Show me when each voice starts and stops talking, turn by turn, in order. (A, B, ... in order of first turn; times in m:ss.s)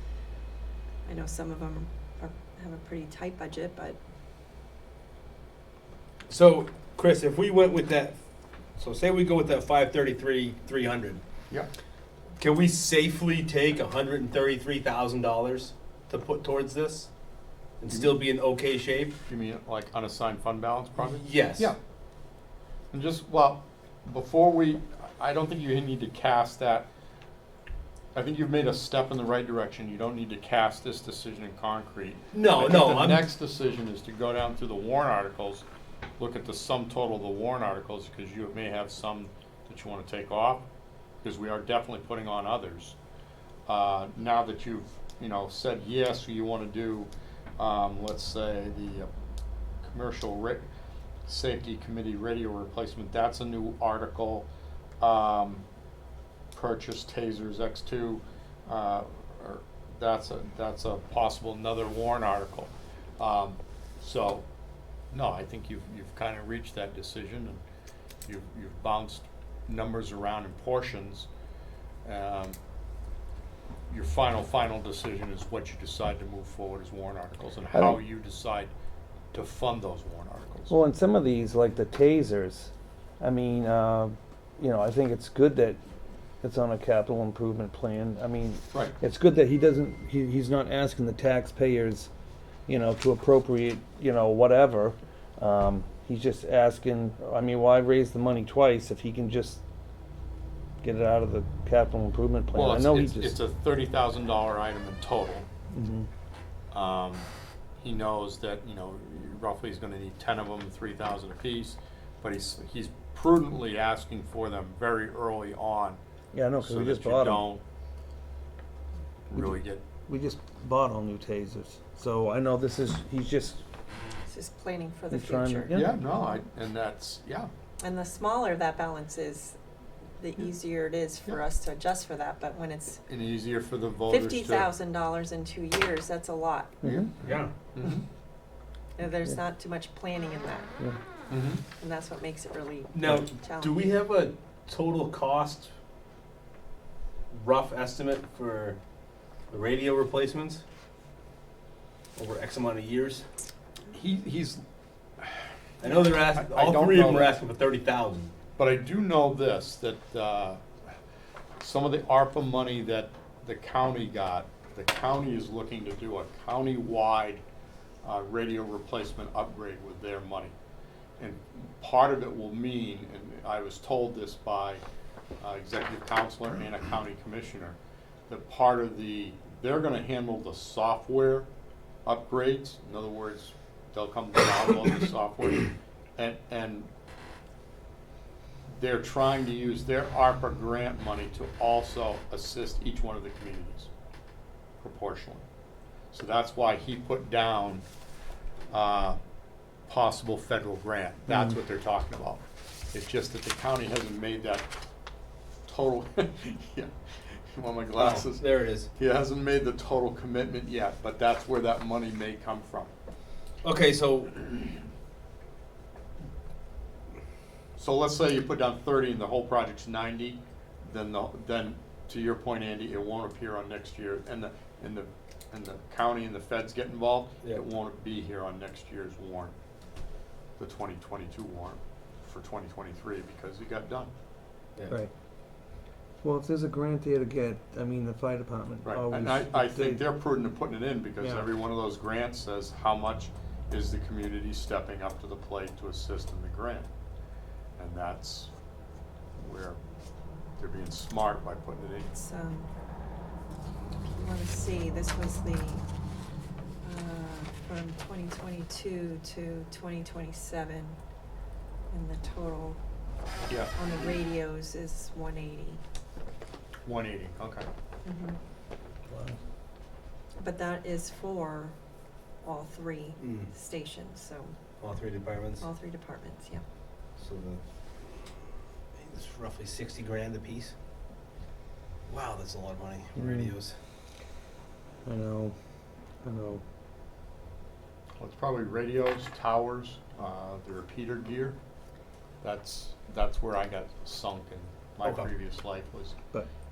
0:01.0-0:04.0 A
0:06.3-0:08.2 B
0:08.8-0:11.2 B
0:12.4-0:17.1 B
0:17.8-0:19.2 B
0:17.9-0:18.2 C
0:19.2-0:21.8 C
0:21.0-0:21.7 B
0:22.9-0:26.9 C
0:28.1-0:35.6 C
0:32.3-0:33.2 B
0:36.2-0:40.7 C
0:41.2-0:43.0 C
0:43.7-0:49.1 C
0:49.8-0:50.6 C
0:51.3-0:54.5 C
0:55.0-0:55.6 C
0:56.5-1:04.4 C
1:05.1-1:07.6 C
1:08.2-1:11.3 C
1:12.0-1:12.6 C
1:13.9-1:18.7 C
1:17.7-1:18.0 D
1:19.3-1:20.7 C
1:20.7-1:25.8 D
1:26.4-1:32.1 D
1:32.7-1:39.6 D
1:40.8-1:43.4 D
1:42.5-1:45.5 C
1:45.7-1:46.1 D
1:46.7-1:47.3 C
1:47.8-1:56.0 C
1:56.3-1:57.4 D
1:56.6-1:57.6 C
1:59.3-1:59.8 C
1:59.3-2:03.6 D
2:04.3-2:05.7 A
2:05.1-2:05.9 D
2:05.7-2:07.5 C
2:07.8-2:09.6 A
2:10.2-2:13.0 A
2:13.1-2:14.7 C
2:14.1-2:16.8 A
2:16.8-2:17.1 D
2:17.2-2:17.5 B
2:17.7-2:18.0 C
2:19.0-2:20.7 A
2:21.3-2:21.6 C
2:21.8-2:23.8 A
2:22.9-2:25.7 B
2:27.3-2:28.8 B
2:29.5-2:30.6 B
2:32.2-2:33.2 B
2:33.9-2:34.6 C
2:35.2-2:37.4 C
2:35.8-2:38.4 B
2:38.6-2:40.6 C
2:41.6-2:47.4 C
2:48.0-2:50.5 C
2:51.2-2:54.8 C
2:55.4-2:57.8 C
2:58.3-3:01.5 C
3:02.0-3:06.9 C
3:08.7-3:13.9 C
3:14.8-3:15.4 C
3:16.1-3:17.8 C
3:18.7-3:19.2 C
3:19.9-3:24.7 C
3:25.7-3:32.9 C
3:28.0-3:28.9 B
3:33.6-3:34.6 B
3:37.8-3:49.5 C
3:50.6-3:54.1 C
3:56.2-4:00.0 D
3:58.8-4:06.9 C
4:01.2-4:01.5 D
4:07.8-4:08.5 C
4:09.4-4:09.8 C
4:10.6-4:12.1 C
4:12.1-4:12.7 A
4:14.2-4:15.8 A
4:16.8-4:21.0 A
4:21.9-4:22.8 A
4:23.5-4:23.7 C
4:23.7-4:25.8 A
4:26.8-4:27.7 C
4:28.0-4:28.4 A
4:29.1-4:29.4 D
4:30.4-4:31.8 A
4:32.4-4:34.6 A
4:33.2-4:33.5 B
4:34.8-4:35.6 B
4:35.6-4:36.6 A
4:37.2-4:37.6 B
4:39.0-4:40.7 B
4:42.1-4:43.7 B
4:43.1-4:43.5 D
4:45.0-4:45.5 D
4:46.2-4:46.6 D
4:48.2-4:51.6 C
4:52.4-4:56.2 C
4:55.0-4:55.3 B